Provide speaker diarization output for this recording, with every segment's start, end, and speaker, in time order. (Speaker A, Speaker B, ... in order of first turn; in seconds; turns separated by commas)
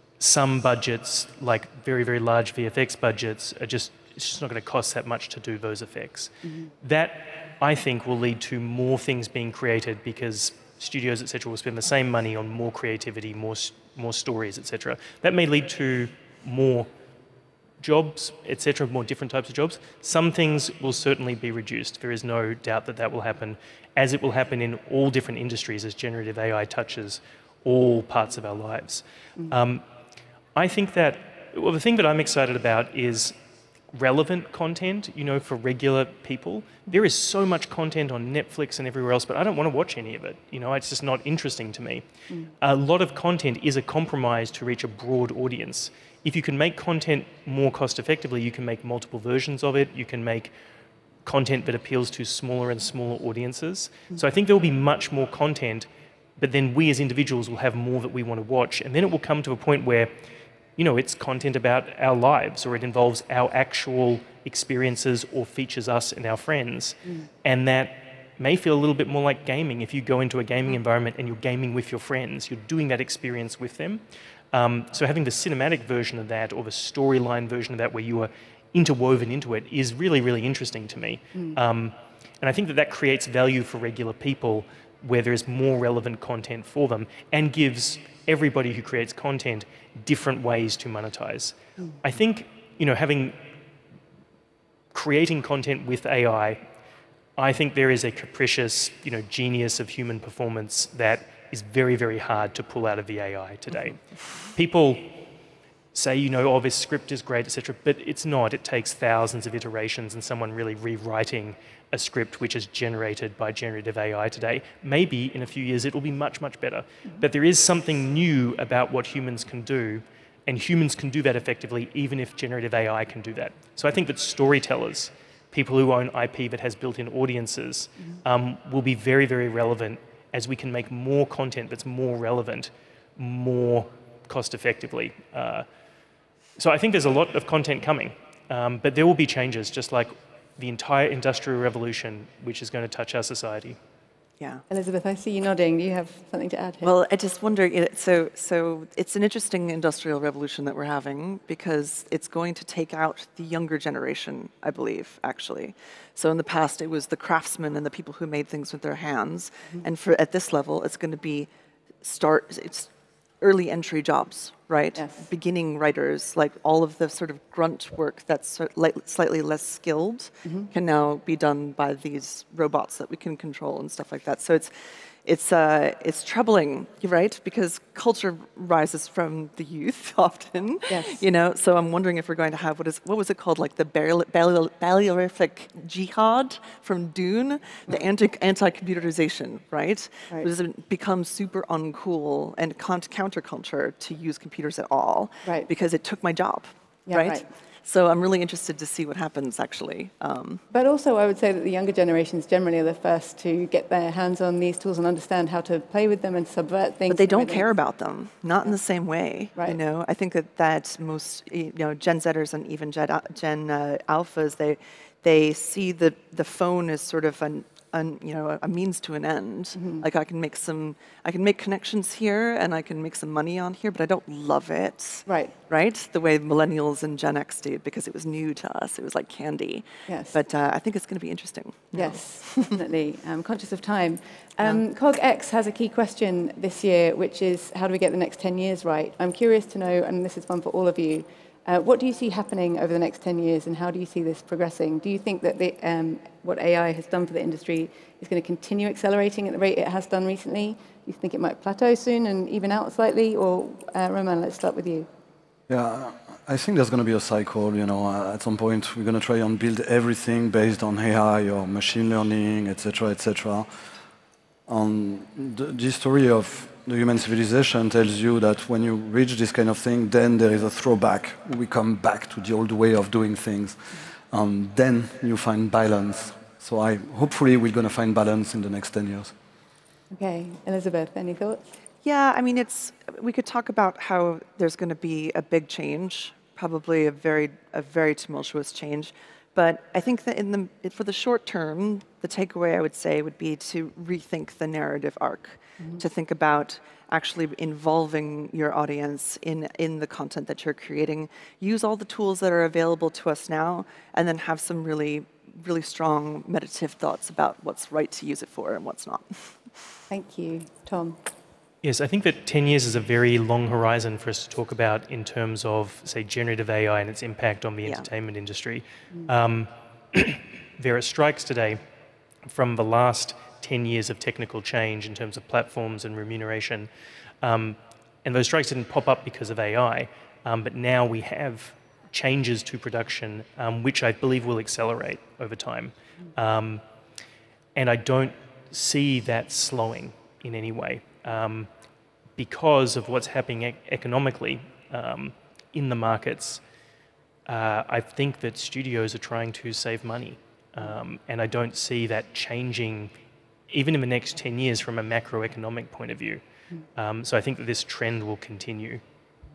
Speaker A: 0.2-16.9, Speaker B: 6.4-6.7, Speaker A: 17.8-29.8, Speaker A: 30.6-33.3, Speaker A: 33.9-42.0, Speaker A: 42.6-50.5, Speaker A: 51.2-60.1, Speaker A: 60.8-93.4, Speaker A: 94.9-96.6, Speaker A: 97.4-105.1, Speaker A: 105.9-135.7, Speaker A: 136.6-143.8, Speaker B: 144.7-146.9, Speaker C: 146.8-161.5, Speaker C: 162.0-162.9, Speaker C: 163.4-174.7, Speaker B: 170.4-170.7, Speaker C: 175.2-200.6, Speaker B: 180.9-181.2, Speaker B: 197.1-197.5, Speaker B: 200.7-207.7, Speaker C: 207.1-232.7, Speaker B: 219.8-220.0, Speaker B: 225.3-225.5, Speaker B: 230.1-230.4, Speaker B: 231.9-255.1, Speaker D: 255.7-263.7, Speaker D: 264.7-273.8, Speaker D: 274.3-279.3, Speaker B: 280.1-281.6, Speaker C: 282.0-309.4, Speaker B: 310.1-311.2, Speaker A: 311.8-321.8, Speaker A: 322.4-326.9, Speaker A: 327.4-336.8, Speaker A: 337.8-341.7, Speaker A: 342.4-346.6, Speaker A: 347.5-353.1, Speaker A: 353.7-356.4, Speaker A: 356.9-359.0